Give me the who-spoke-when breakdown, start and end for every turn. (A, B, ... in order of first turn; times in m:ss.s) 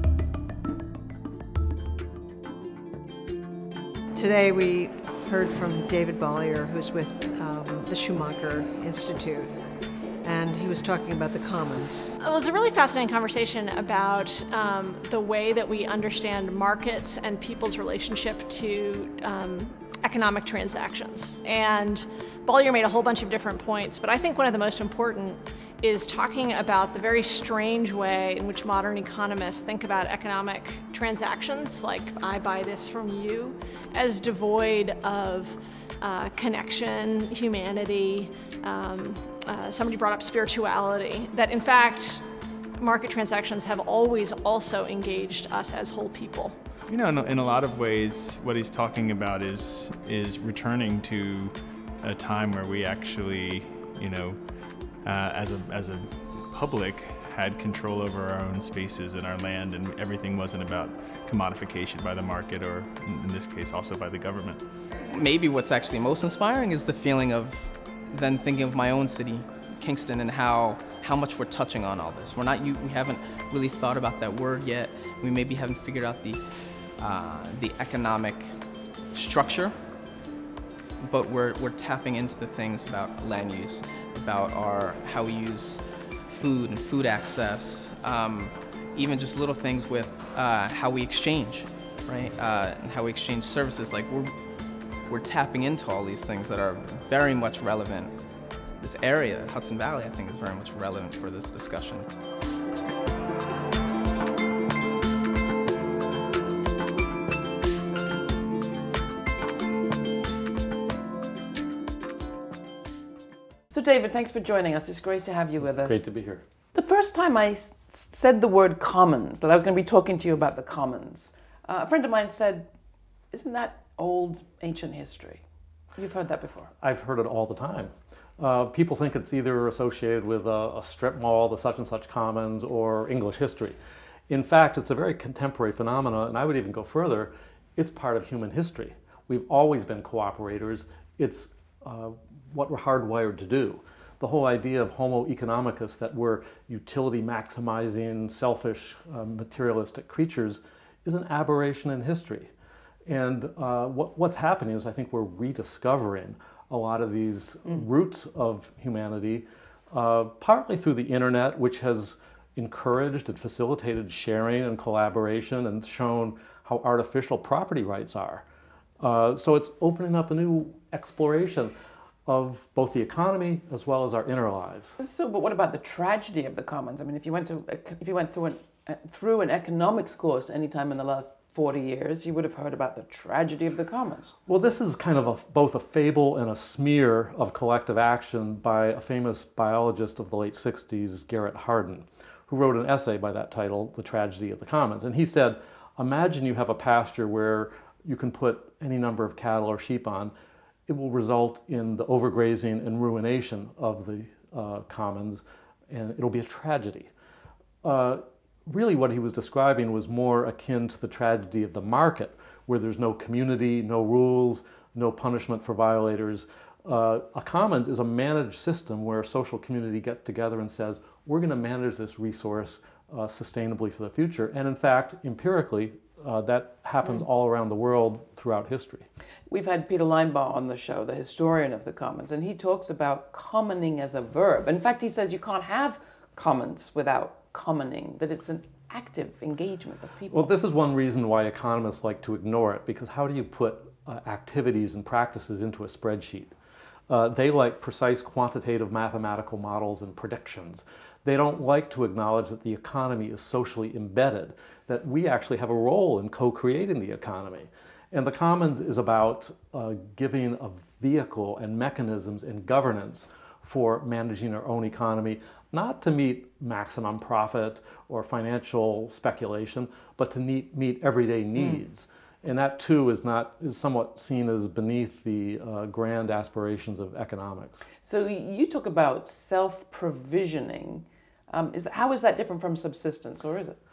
0:04.1-0:09.6 A
0:10.2-0:12.2 A
0:12.2-0:42.2 B
0:42.8-0:46.6 B
0:46.9-0:54.4 C
0:55.0-1:04.6 C
1:05.1-1:16.4 D
1:17.0-1:18.6 D
1:19.1-1:19.8 D
1:21.0-1:34.3 D
1:35.1-1:38.1 D
1:38.8-1:42.1 D
1:53.7-1:56.0 E
1:55.6-1:56.4 F
1:56.7-2:02.7 E
2:03.3-2:05.4 E
2:05.9-2:06.7 E
2:06.8-2:13.8 F
2:14.3-2:32.5 F
2:33.1-2:48.4 F
2:49.0-2:51.7 F
2:52.3-2:55.0 F
2:55.0-3:04.4 E
3:04.5-3:20.3 F
3:20.9-3:27.1 F
3:27.8-3:49.0 F
3:49.5-4:00.5 E
4:00.3-4:06.5 F
4:07.1-4:37.9 F
4:38.0-4:43.8 E